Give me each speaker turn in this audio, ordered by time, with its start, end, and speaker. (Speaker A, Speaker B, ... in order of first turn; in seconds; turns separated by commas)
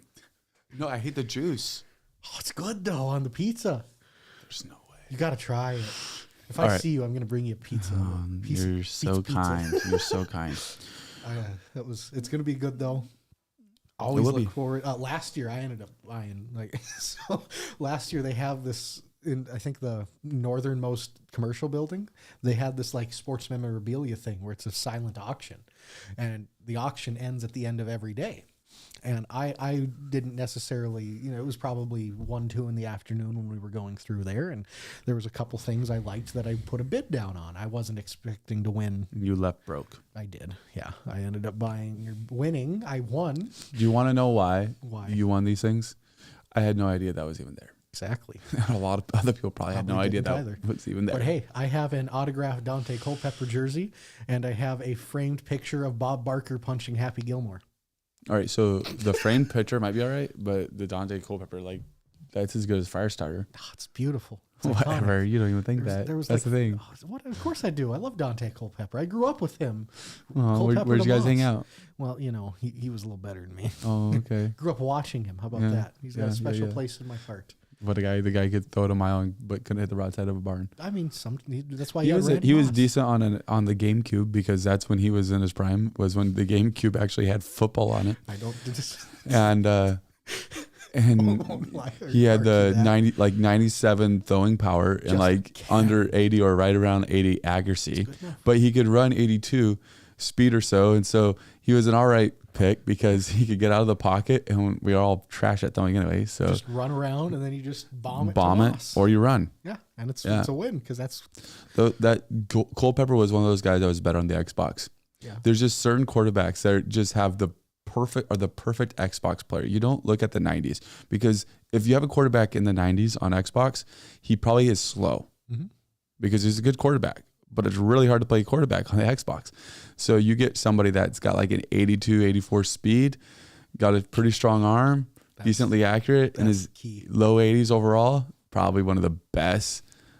Speaker A: 0.7-1.8, Speaker B: 2.2-3.8, Speaker A: 4.5-4.9, Speaker B: 5.1-10.3, Speaker A: 6.6-6.8, Speaker A: 7.8-10.7, Speaker B: 11.2-13.1, Speaker B: 14.0-25.6, Speaker A: 14.1-14.5, Speaker B: 26.2-28.4, Speaker B: 29.0-39.1, Speaker A: 39.1-40.0, Speaker B: 40.1-43.7, Speaker A: 43.7-46.0, Speaker B: 44.8-45.2, Speaker A: 46.5-47.7, Speaker B: 47.9-48.5, Speaker A: 48.5-51.4, Speaker B: 49.7-57.6, Speaker A: 58.3-63.5, Speaker B: 63.5-77.6, Speaker A: 64.6-66.8, Speaker A: 70.3-71.7, Speaker A: 73.8-74.6, Speaker A: 75.5-76.8, Speaker A: 77.8-80.7, Speaker B: 80.8-82.9, Speaker A: 82.0-88.2, Speaker B: 88.2-89.5, Speaker A: 89.2-90.0, Speaker B: 90.3-93.0, Speaker A: 90.9-106.6, Speaker B: 95.0-96.1, Speaker B: 98.0-98.4, Speaker B: 106.4-109.1, Speaker A: 108.1-109.5, Speaker B: 109.6-111.3, Speaker A: 110.2-110.5, Speaker A: 111.7-114.9, Speaker A: 115.4-125.3, Speaker A: 126.2-133.2, Speaker A: 133.8-139.8, Speaker B: 135.4-135.7, Speaker B: 136.3-137.1